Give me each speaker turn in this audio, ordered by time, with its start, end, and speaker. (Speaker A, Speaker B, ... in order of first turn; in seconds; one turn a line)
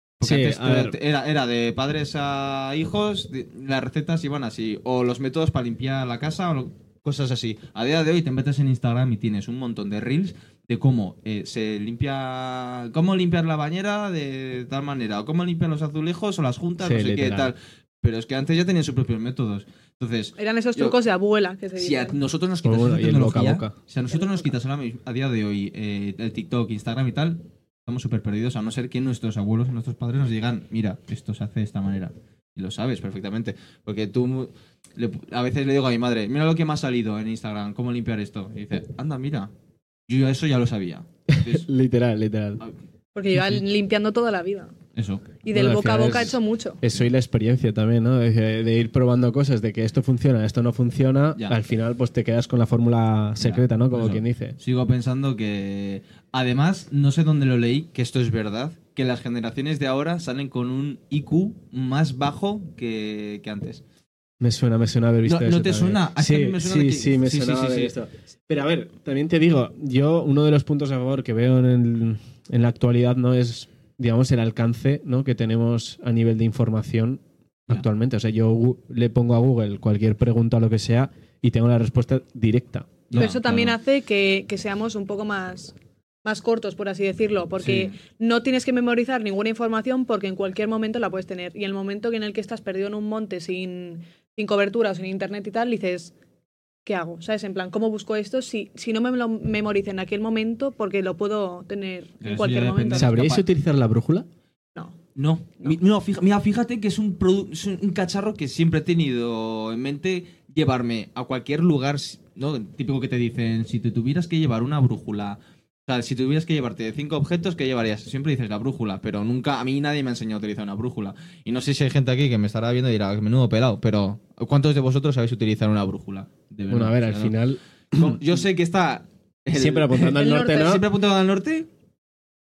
Speaker A: 0.2-21.0
Speaker B: 0.2-0.9
Speaker B: 16.8-17.5
Speaker C: 20.4-22.2
Speaker A: 21.7-39.5
Speaker B: 22.6-23.7
Speaker C: 24.1-24.5
Speaker A: 40.1-41.7
Speaker B: 41.3-42.6
Speaker C: 43.1-44.7
Speaker A: 43.3-43.6
Speaker A: 44.9-45.3
Speaker C: 45.4-46.8
Speaker B: 45.5-54.5
Speaker A: 53.4-63.8
Speaker B: 64.4-83.3
Speaker A: 65.2-67.9
Speaker A: 83.1-83.7
Speaker C: 83.1-85.7
Speaker C: 86.2-96.1
Speaker A: 87.6-87.9
Speaker C: 96.8-103.1
Speaker A: 102.2-103.4
Speaker B: 102.9-104.3
Speaker A: 105.2-127.3
Speaker B: 126.7-128.2
Speaker A: 127.9-131.7
Speaker B: 129.5-130.8
Speaker C: 130.0-130.8